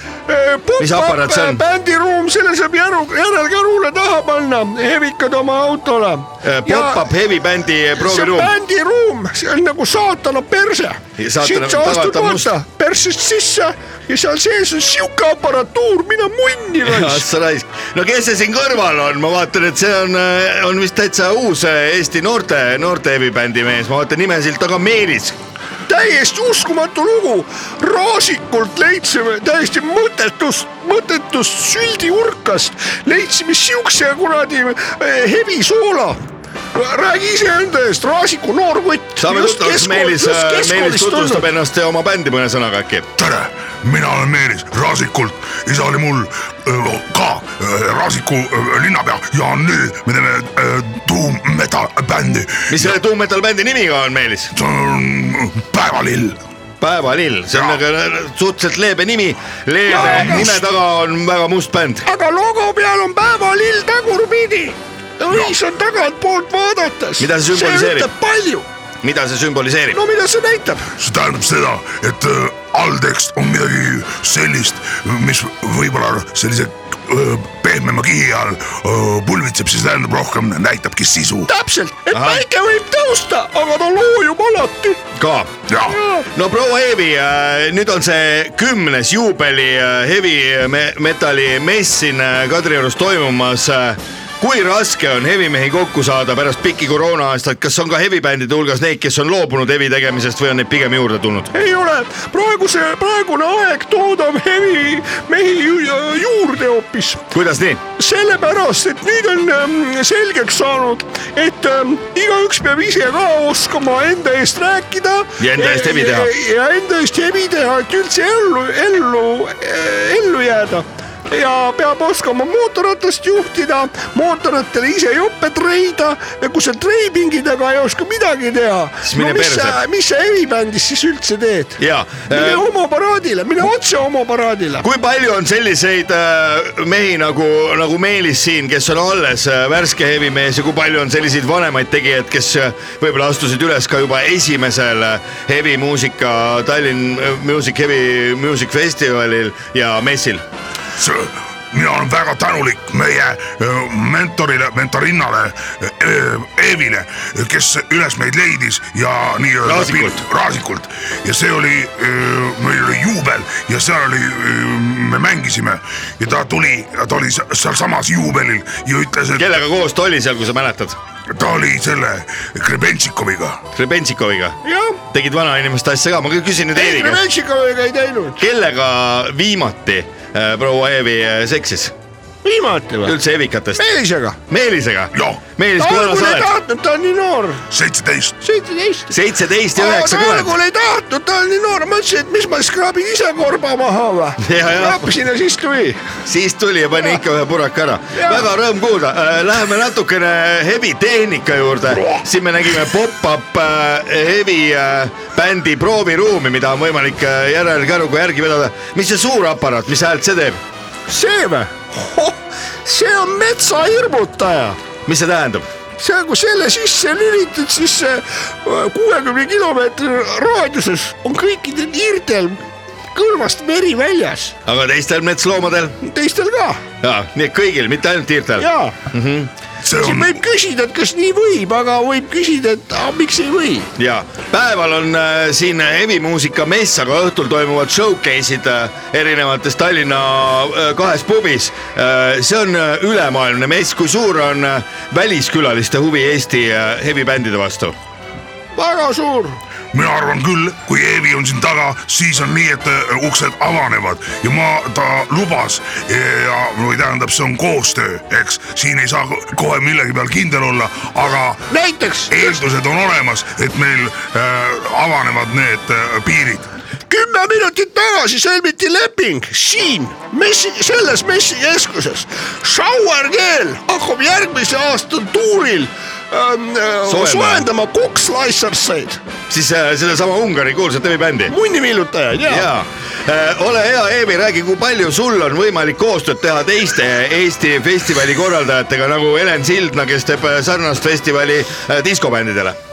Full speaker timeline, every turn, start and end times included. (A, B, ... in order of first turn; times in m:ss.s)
0:00.3-0:07.1 A
0:00.8-0:01.6 B
0:06.4-0:08.5 B
0:08.0-0:17.3 A
0:11.2-0:12.5 B
0:16.8-0:25.4 B
0:25.9-0:36.2 A
0:36.7-0:41.5 A
0:39.2-0:43.1 B
0:43.2-0:52.8 C
0:52.7-0:54.6 B
0:54.6-0:56.4 C
0:56.8-1:02.1 B
0:59.9-1:00.6 A
1:02.0-1:08.7 A
1:07.2-1:08.1 B
1:09.0-1:10.0 B
1:09.9-1:10.9 A
1:11.0-1:21.5 C
1:21.5-1:25.0 A
1:22.1-1:22.4 B
1:25.2-1:25.6 B
1:25.8-1:26.3 A
1:26.3-1:41.5 B
1:41.5-1:47.3 A
1:47.3-1:47.8 B
1:48.0-2:14.9 A
1:55.4-1:56.3 B
2:09.0-2:09.8 B
2:11.8-2:12.7 B
2:14.8-2:30.4 B
2:31.0-2:49.4 C
2:39.6-2:40.2 B
2:49.3-2:51.0 B
2:51.3-2:53.6 C
2:53.7-2:57.2 B
2:54.6-2:55.0 A
2:56.7-2:58.4 A
2:58.4-3:02.0 B
3:02.4-3:03.2 A
3:03.0-3:03.9 B
3:03.7-3:04.4 A
3:04.5-3:06.5 B
3:05.8-3:07.6 A
3:07.7-3:08.3 C
3:08.4-3:09.1 A
3:09.1-3:10.6 B
3:09.8-3:16.1 A
3:14.4-3:15.2 B
3:16.2-3:30.6 B
3:18.1-3:18.5 A
3:31.1-3:34.8 A
3:35.1-3:35.7 B
3:36.0-3:44.6 A
3:44.6-3:46.0 B
3:46.0-3:46.8 A
3:47.0-3:49.5 B
3:48.6-3:49.0 A
3:49.9-3:53.9 A
3:49.9-3:50.3 C
3:54.0-4:08.0 B
4:08.7-4:09.6 A
4:09.9-4:21.6 C
4:21.7-4:22.6 A
4:22.3-4:26.7 C
4:27.1-4:39.2 A
4:37.1-4:37.7 B
4:39.5-4:41.6 B
4:41.5-4:42.7 A
4:42.4-4:52.8 B